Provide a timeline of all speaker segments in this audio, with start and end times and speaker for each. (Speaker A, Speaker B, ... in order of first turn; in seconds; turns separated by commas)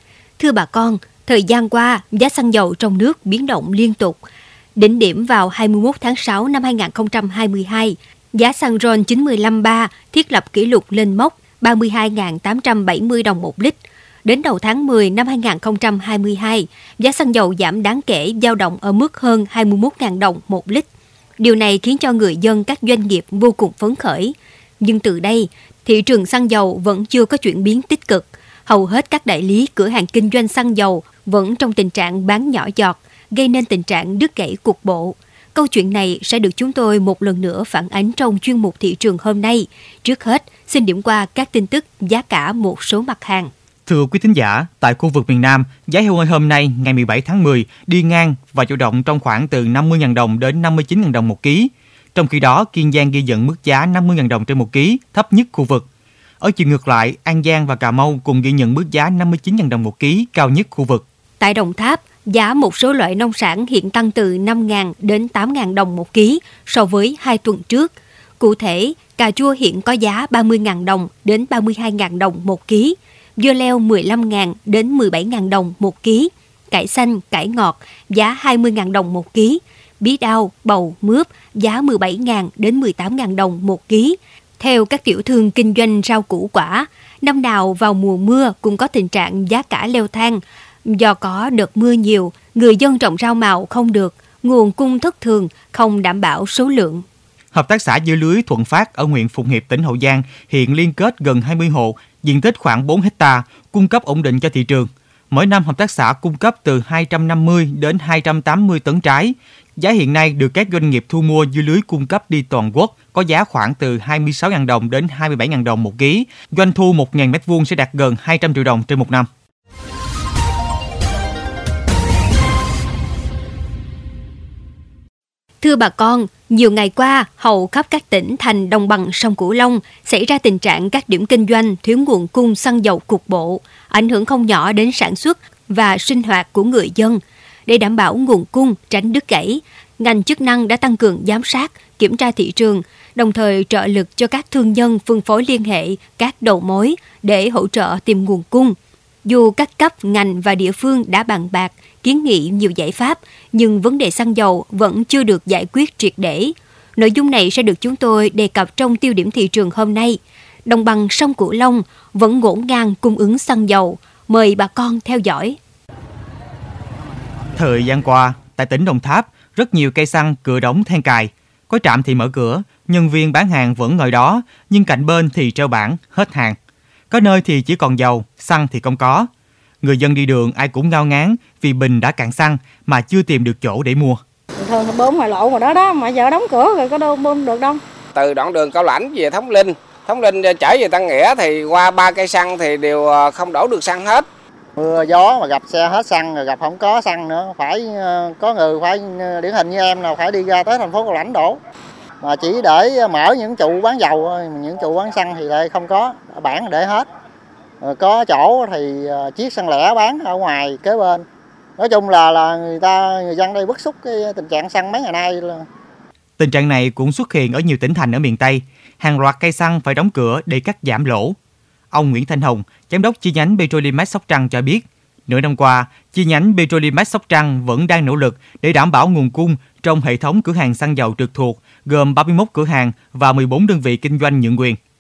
Speaker A: 0.4-4.2, Speaker A: 4.8-20.9, Speaker A: 21.4-43.5, Speaker B: 43.9-55.9, Speaker B: 56.4-61.0, Speaker A: 61.4-97.0, Speaker B: 97.5-119.3, Speaker A: 125.6-165.6, Speaker B: 167.6-176.6, Speaker B: 177.1-179.3, Speaker B: 179.8-184.2, Speaker C: 184.6-187.8, Speaker D: 188.2-194.2, Speaker E: 194.8-201.6, Speaker E: 202.2-207.1, Speaker E: 207.8-211.2, Speaker E: 211.8-215.7, Speaker B: 216.4-221.4, Speaker B: 221.9-234.8